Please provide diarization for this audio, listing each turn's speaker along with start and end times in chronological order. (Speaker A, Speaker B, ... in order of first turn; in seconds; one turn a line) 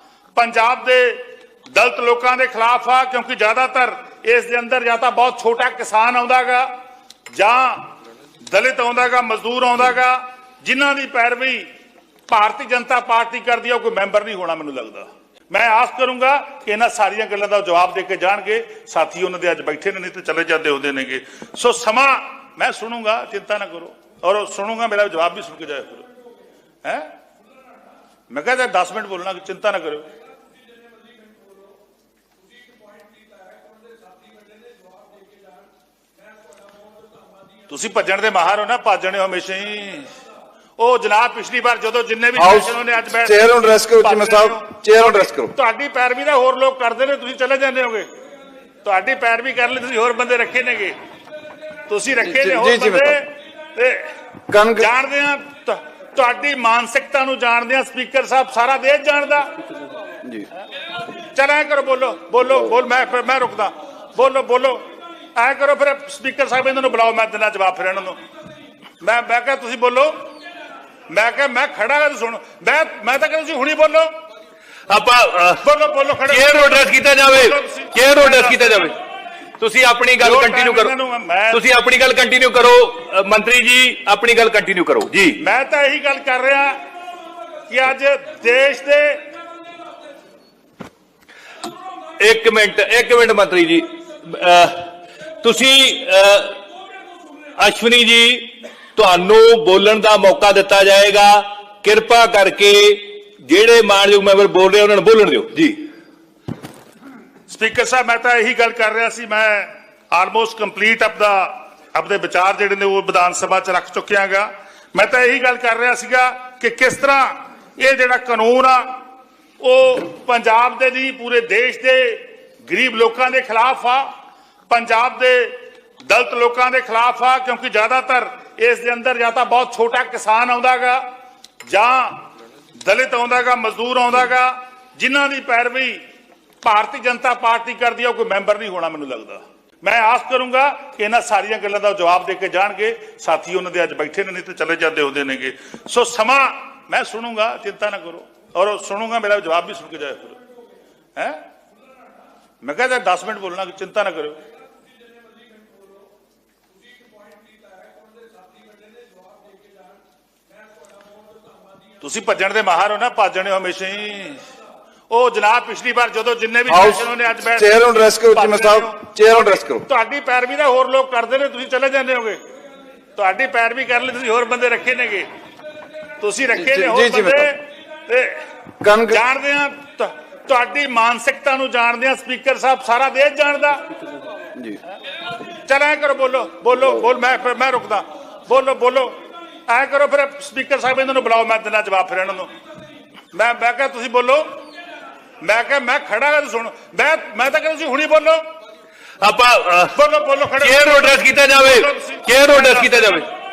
Speaker A: 0.3-6.7
Speaker A: 7.3-7.9
Speaker A: 8.4-11.7
Speaker A: 12.3-26.1
Speaker A: 26.8-27.1
Speaker A: 28.3-30.1
Speaker A: 37.7-40.1
Speaker A: 40.8-43.5
Speaker B: 42.4-45.5
Speaker A: 44.0-48.1
Speaker A: 48.8-51.0
Speaker A: 51.9-54.1
Speaker B: 52.2-53.2
Speaker B: 54.5-54.9
Speaker A: 54.8-59.5
Speaker A: 61.3-68.2
Speaker A: 69.0-70.3
Speaker A: 71.1-74.1
Speaker C: 74.9-75.6
Speaker A: 75.6-78.9
Speaker C: 76.3-79.0
Speaker C: 79.6-80.9
Speaker A: 80.2-81.6
Speaker C: 81.5-85.4
Speaker A: 85.4-86.8
Speaker A: 87.7-89.2
Speaker C: 92.2-94.9
Speaker C: 95.4-96.6
Speaker C: 97.6-105.8
Speaker A: 107.5-118.8
Speaker A: 119.6-124.1
Speaker A: 124.7-125.5
Speaker A: 126.1-131.0
Speaker A: 131.6-132.2
Speaker A: 132.8-136.0
Speaker A: 136.6-150.4
Speaker A: 151.2-151.4
Speaker A: 152.6-154.4
Speaker A: 162.0-164.4
Speaker A: 165.1-172.4
Speaker B: 166.7-169.8
Speaker A: 173.1-175.3
Speaker A: 176.2-178.4
Speaker B: 176.6-177.5
Speaker B: 178.8-179.2
Speaker A: 179.1-183.8
Speaker A: 185.7-192.5
Speaker A: 193.3-194.6
Speaker A: 195.4-198.4
Speaker C: 199.2-199.9
Speaker A: 199.9-203.2
Speaker C: 200.6-203.3